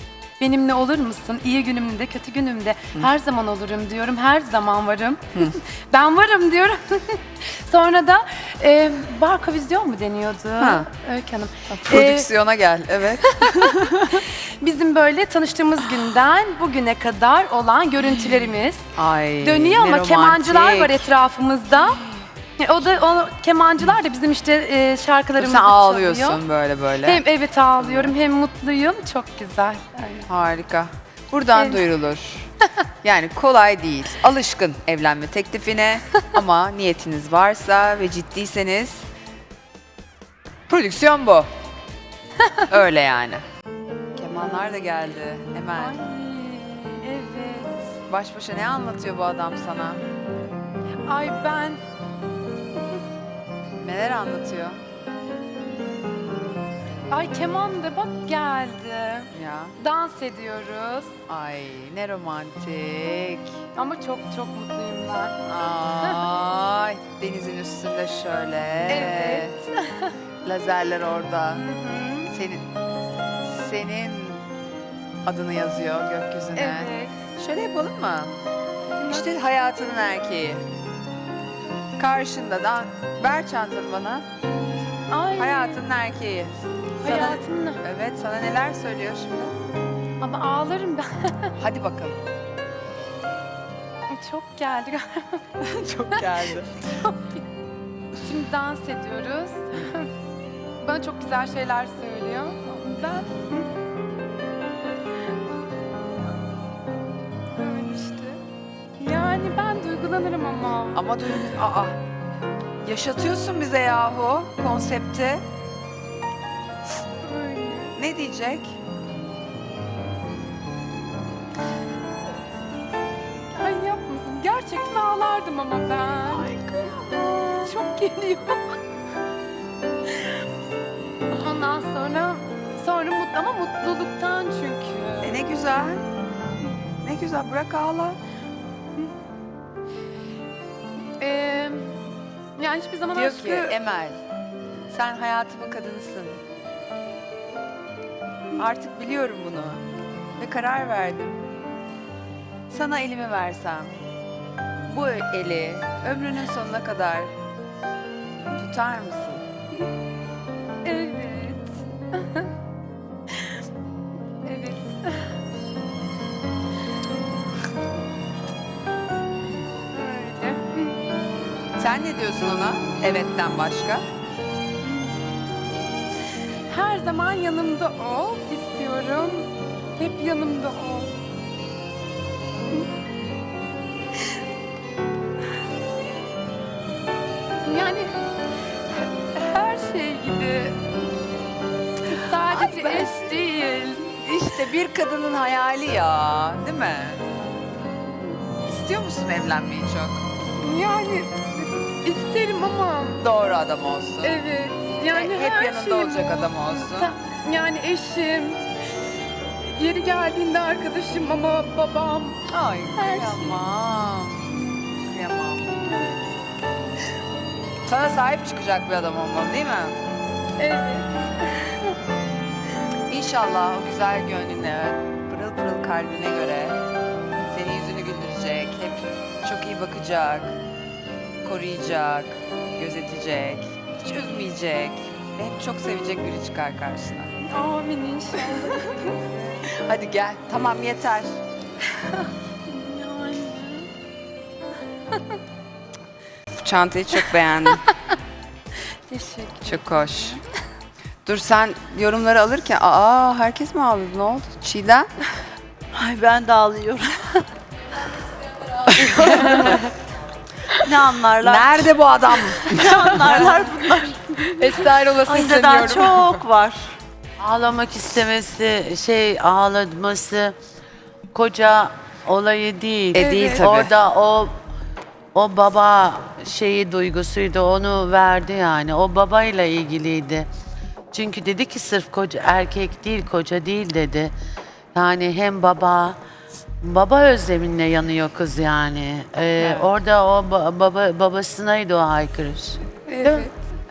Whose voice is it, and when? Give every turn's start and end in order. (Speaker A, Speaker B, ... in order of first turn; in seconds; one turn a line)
Speaker A: 0.4-12.3
Speaker B: 10.6-10.9
Speaker B: 11.8-14.2
Speaker A: 13.2-13.7
Speaker A: 14.6-18.8
Speaker B: 18.9-21.1
Speaker A: 19.4-22.0
Speaker A: 22.6-26.4
Speaker B: 25.4-27.2
Speaker A: 27.0-30.3
Speaker B: 27.8-28.1
Speaker B: 30.3-32.5
Speaker A: 31.6-31.8
Speaker B: 33.0-39.0
Speaker B: 40.7-41.5
Speaker B: 42.7-43.4
Speaker B: 44.1-46.0
Speaker A: 45.8-47.8
Speaker B: 48.1-50.0
Speaker A: 51.0-51.8
Speaker B: 53.8-54.8
Speaker A: 57.1-61.1
Speaker B: 59.3-59.7
Speaker B: 61.3-63.6
Speaker A: 63.8-65.4
Speaker B: 65.5-69.5
Speaker A: 68.9-70.1
Speaker B: 70.4-71.7
Speaker A: 71.5-72.3
Speaker B: 72.3-72.7
Speaker B: 73.4-74.5
Speaker B: 75.2-78.3
Speaker A: 76.5-77.1
Speaker A: 79.0-79.2
Speaker B: 79.0-80.6
Speaker B: 82.0-84.2
Speaker A: 85.1-85.8
Speaker B: 85.4-89.5
Speaker A: 87.0-87.8
Speaker A: 90.2-91.5
Speaker B: 91.6-92.2
Speaker A: 94.1-95.5
Speaker B: 95.6-96.7
Speaker A: 96.8-97.4
Speaker A: 98.2-100.1
Speaker A: 100.8-103.7
Speaker A: 107.5-108.4
Speaker A: 109.0-111.0
Speaker B: 110.9-112.0
Speaker B: 112.8-115.4
Speaker A: 117.2-117.9
Speaker B: 118.0-118.8
Speaker A: 123.5-126.5
Speaker A: 127.6-128.8
Speaker A: 131.3-135.4
Speaker B: 135.2-136.1
Speaker B: 137.0-138.2
Speaker A: 141.2-141.9
Speaker A: 142.6-143.8
Speaker B: 143.1-144.2
Speaker B: 144.9-146.4
Speaker B: 148.6-149.8
Speaker B: 150.4-151.4
Speaker B: 152.7-153.9
Speaker B: 154.8-157.3
Speaker B: 158.4-159.4
Speaker A: 160.8-162.4
Speaker A: 164.4-165.3
Speaker A: 169.9-170.9
Speaker B: 171.8-174.0
Speaker A: 174.8-175.2
Speaker A: 176.7-181.1
Speaker A: 187.6-188.1
Speaker A: 189.2-190.8
Speaker A: 192.1-194.1
Speaker B: 192.4-193.1
Speaker B: 194.2-197.2
Speaker B: 198.6-200.2
Speaker A: 200.5-203.2
Speaker B: 203.2-204.3
Speaker A: 204.2-208.6
Speaker B: 205.1-207.1
Speaker A: 209.6-212.4
Speaker B: 212.5-214.5
Speaker A: 212.9-213.5
Speaker B: 215.0-215.7
Speaker B: 217.8-220.0
Speaker A: 220.6-221.9
Speaker B: 223.1-226.8
Speaker B: 227.5-230.6
Speaker B: 231.4-237.3
Speaker A: 237.4-239.7
Speaker B: 239.7-241.3
Speaker A: 242.0-243.9
Speaker B: 246.6-247.8
Speaker A: 249.1-250.4
Speaker B: 249.7-250.4
Speaker B: 251.2-255.1
Speaker C: 255.9-257.4
Speaker C: 258.9-259.8
Speaker B: 259.3-259.7
Speaker C: 260.9-262.0
Speaker B: 261.4-263.5
Speaker C: 262.6-264.5
Speaker B: 264.6-266.4
Speaker C: 265.2-266.9
Speaker D: 267.4-270.5
Speaker D: 271.3-274.5
Speaker A: 273.1-273.7
Speaker B: 273.1-273.9
Speaker D: 275.4-280.5
Speaker D: 281.1-284.3
Speaker D: 284.9-286.2
Speaker D: 286.8-293.5
Speaker A: 289.6-289.9
Speaker A: 293.1-293.6